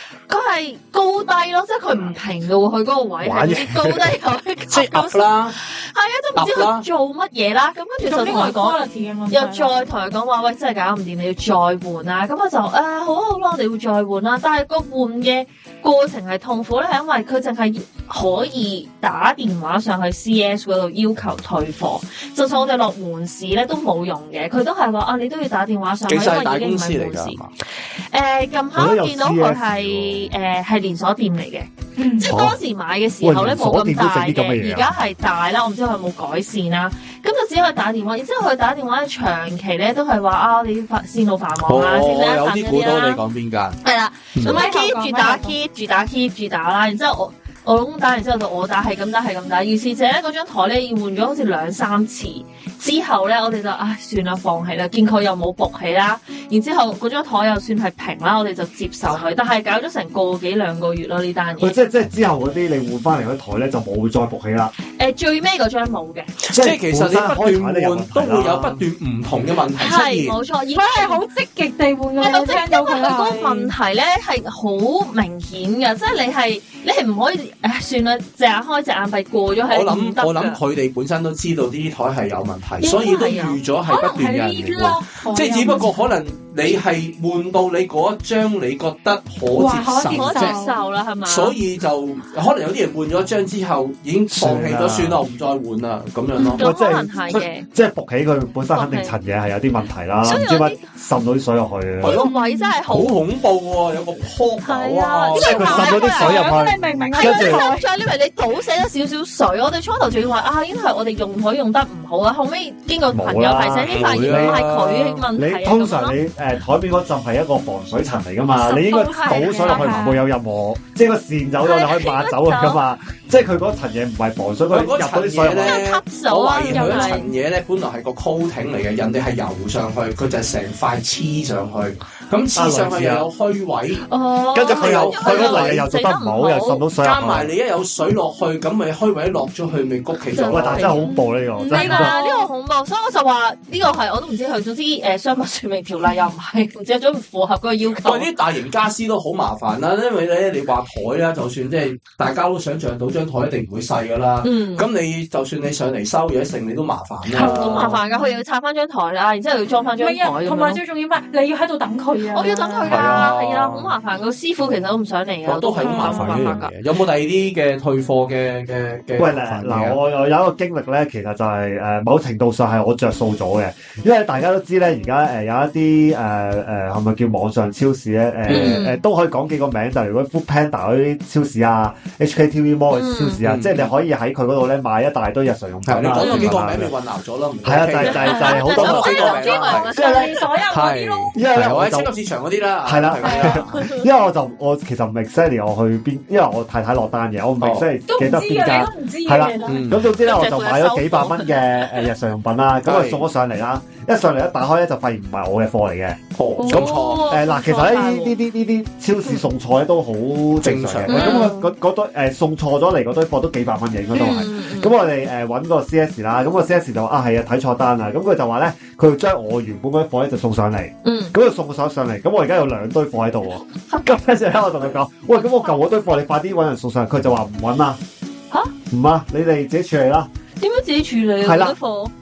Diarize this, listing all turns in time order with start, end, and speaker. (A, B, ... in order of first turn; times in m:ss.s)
0:00.3-0:43.2 A
0:03.2-0:04.1 B
0:04.7-0:05.6 C
0:06.4-0:06.9 C
0:08.0-0:09.8 D
0:26.1-0:27.5 C
0:28.7-0:30.3 B
0:32.0-0:32.4 D
0:32.2-0:32.6 B
0:33.2-0:34.9 B
0:41.6-0:43.8 C
0:43.8-1:01.8 A
0:44.4-0:45.6 D
1:01.6-1:04.7 B
1:04.9-1:06.4 A
1:06.4-1:10.4 C
1:06.5-1:08.8 B
1:09.7-1:11.2 A
1:10.7-1:13.7 D
1:12.2-1:20.6 A
1:19.6-1:30.6 C
1:22.8-1:23.6 A
1:23.9-1:26.1 D
1:29.6-1:30.8 D
1:30.1-1:31.6 A
1:31.2-1:36.7 C
1:34.3-1:35.2 B
1:36.4-1:37.7 A
1:36.6-1:42.2 B
1:38.7-1:39.2 A
1:40.2-1:40.8 A
1:42.0-1:43.2 A
1:42.0-1:42.7 D
1:42.9-1:45.8 C
1:44.6-1:47.8 D
1:45.4-1:46.5 A
1:45.4-1:47.6 B
1:47.2-1:56.1 A
1:53.1-1:54.7 B
1:53.8-1:55.2 C
1:55.4-2:05.8 B
1:58.6-2:00.3 D
2:01.6-2:02.8 A
2:04.7-2:14.1 C
2:05.6-2:07.3 A
2:06.7-2:07.3 D
2:12.6-2:13.3 B
2:14.0-2:16.8 A
2:14.5-2:17.5 B
2:14.6-2:15.8 C
2:17.0-2:21.0 C
2:20.3-2:28.3 A
2:20.4-2:22.2 B
2:21.0-2:22.5 D
2:28.0-2:38.0 C
2:34.4-2:34.9 A
2:37.3-2:38.4 D
2:37.3-2:40.8 A
2:40.0-2:43.2 D
2:42.3-2:46.7 A
2:42.9-2:43.9 C
2:45.4-2:50.0 C
2:45.8-2:46.6 D
2:49.2-3:06.9 B
2:58.5-2:58.9 C
2:58.5-2:59.0 A
3:02.9-3:03.4 A
3:03.4-3:03.9 C
3:05.9-3:09.9 C
3:06.2-3:06.5 A
3:07.6-3:10.4 B
3:08.0-3:10.5 A
3:08.3-3:11.4 D
3:10.7-3:13.9 C
3:11.3-3:12.1 B
3:12.8-3:48.0 B
3:13.2-3:13.6 D
3:13.8-3:14.0 A
3:18.1-3:19.8 D
3:19.7-3:20.1 C
3:20.2-3:22.0 A
3:22.8-3:23.2 C
3:26.4-3:27.3 C
3:26.6-3:28.4 A
3:30.6-3:31.5 C
3:31.1-3:31.7 A
3:34.1-3:34.9 A
3:41.0-3:41.4 A
3:48.9-3:50.3 B
3:50.6-3:52.1 A
3:51.4-3:51.8 B